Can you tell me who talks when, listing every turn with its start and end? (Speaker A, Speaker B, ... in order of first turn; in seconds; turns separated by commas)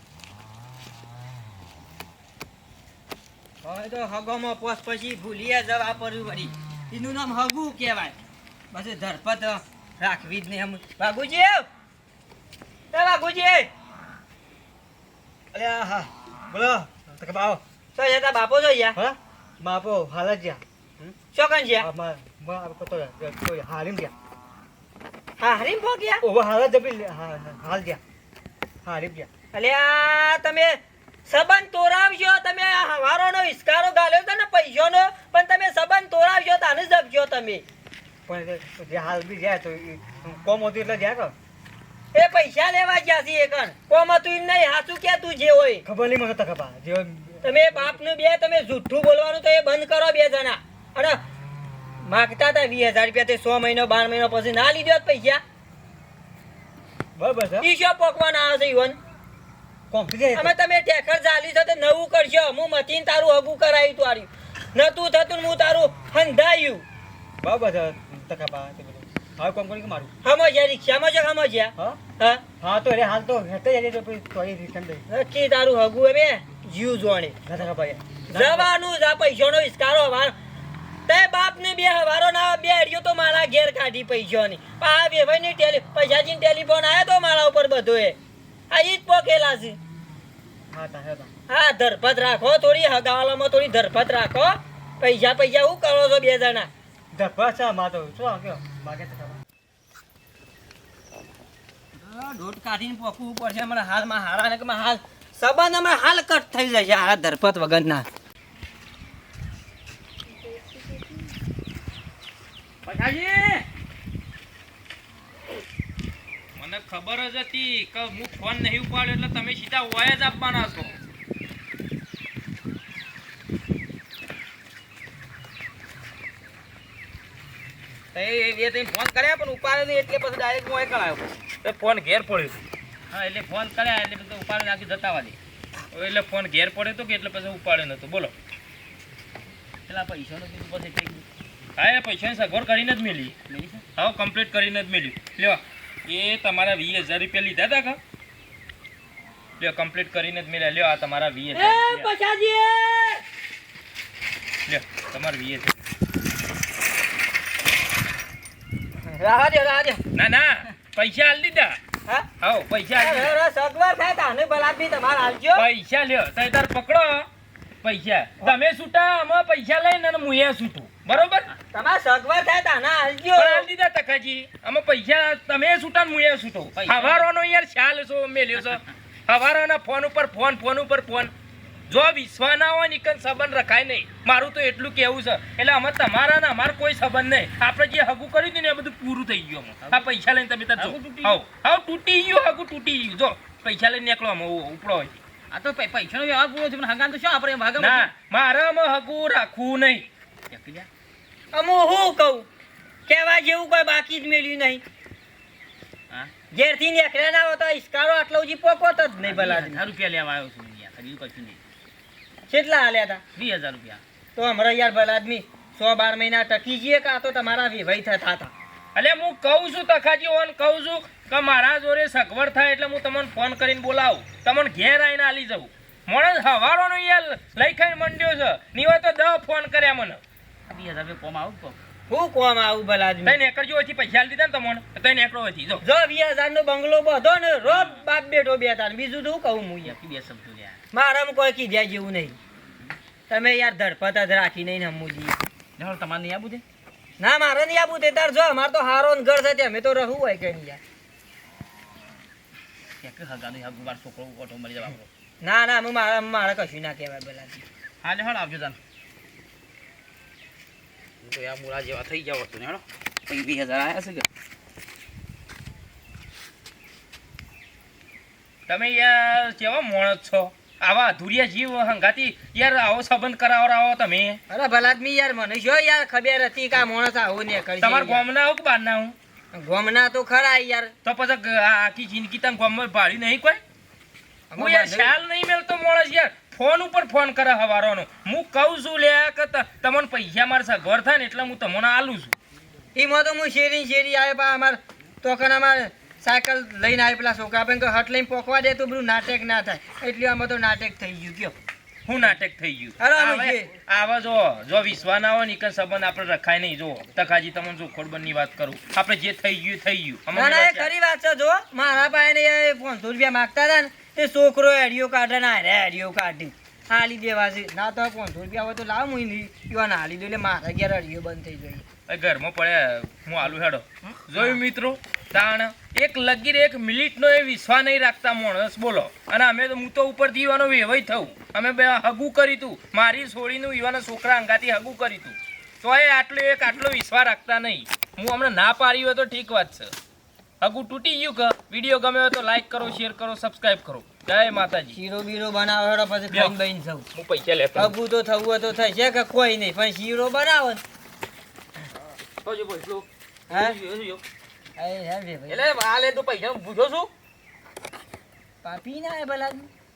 Speaker A: 3.6-8.2, Speaker A: 8.7-11.7, Speaker A: 12.9-13.7, Speaker B: 15.5-17.6, Speaker A: 17.9-18.9, Speaker B: 18.9-21.1, Speaker A: 21.3-21.9, Speaker B: 21.8-24.1, Speaker A: 25.4-26.2, Speaker B: 26.2-28.0, Speaker B: 28.8-29.3, Speaker A: 29.5-37.6, Speaker B: 38.3-41.3, Speaker A: 42.1-45.8, Speaker B: 45.8-47.6, Speaker A: 47.4-51.2, Speaker A: 52.0-55.4, Speaker B: 57.2-57.7, Speaker A: 57.6-59.0, Speaker B: 59.9-60.5, Speaker A: 60.3-66.8, Speaker B: 67.4-70.1, Speaker A: 70.2-72.4, Speaker B: 72.6-75.0, Speaker A: 75.1-77.3, Speaker B: 77.4-78.7, Speaker A: 78.3-80.3, Speaker A: 81.1-88.2, Speaker A: 88.7-89.8, Speaker B: 90.7-91.3, Speaker A: 91.5-96.7, Speaker B: 97.1-99.4, Speaker A: 102.0-108.1, Speaker C: 112.8-113.6, Speaker D: 116.6-121.0, Speaker C: 128.1-131.4, Speaker D: 131.6-132.6, Speaker C: 133.1-135.4, Speaker D: 135.9-138.3, Speaker C: 139.9-141.2, Speaker D: 141.8-143.3, Speaker C: 143.5-143.8, Speaker D: 144.0-148.0, Speaker D: 149.6-151.9, Speaker A: 151.5-153.2, Speaker D: 154.7-155.7, Speaker A: 159.0-160.0, Speaker D: 160.1-161.8, Speaker D: 162.4-163.3, Speaker A: 162.9-165.7, Speaker D: 165.6-167.3, Speaker D: 167.8-171.5, Speaker A: 171.7-173.7, Speaker D: 173.3-181.3, Speaker C: 176.7-177.3, Speaker D: 181.9-195.2, Speaker C: 189.8-190.2, Speaker C: 190.8-191.4, Speaker C: 195.5-198.1, Speaker D: 197.8-200.1, Speaker C: 200.5-200.9, Speaker A: 201.5-202.5, Speaker A: 203.1-204.8, Speaker A: 206.5-209.8, Speaker C: 209.2-211.6, Speaker A: 212.5-213.2, Speaker C: 213.3-214.0, Speaker A: 214.3-218.5, Speaker D: 218.9-230.2, Speaker C: 230.7-231.8, Speaker A: 232.1-233.4, Speaker D: 233.2-235.8, Speaker A: 235.8-239.9, Speaker C: 237.6-238.0, Speaker C: 239.8-240.8, Speaker A: 240.9-242.4, Speaker A: 243.3-245.4, Speaker C: 245.8-246.6, Speaker A: 247.2-250.8, Speaker C: 253.0-255.1, Speaker A: 255.4-257.6, Speaker C: 258.0-258.8, Speaker C: 261.2-264.2, Speaker D: 268.7-274.4, Speaker A: 274.5-278.2, Speaker D: 277.8-279.1, Speaker A: 279.5-280.9, Speaker D: 281.0-283.6, Speaker A: 284.5-285.1, Speaker D: 284.6-292.3, Speaker A: 292.9-301.5, Speaker D: 302.1-310.9, Speaker A: 303.0-303.7, Speaker A: 310.3-321.8, Speaker D: 322.1-339.9, Speaker D: 340.6-345.0, Speaker A: 344.9-347.1, Speaker D: 347.1-347.9, Speaker A: 347.8-350.8, Speaker C: 352.4-354.2, Speaker A: 353.5-353.8, Speaker A: 354.8-355.6, Speaker C: 355.5-357.1, Speaker A: 358.6-359.7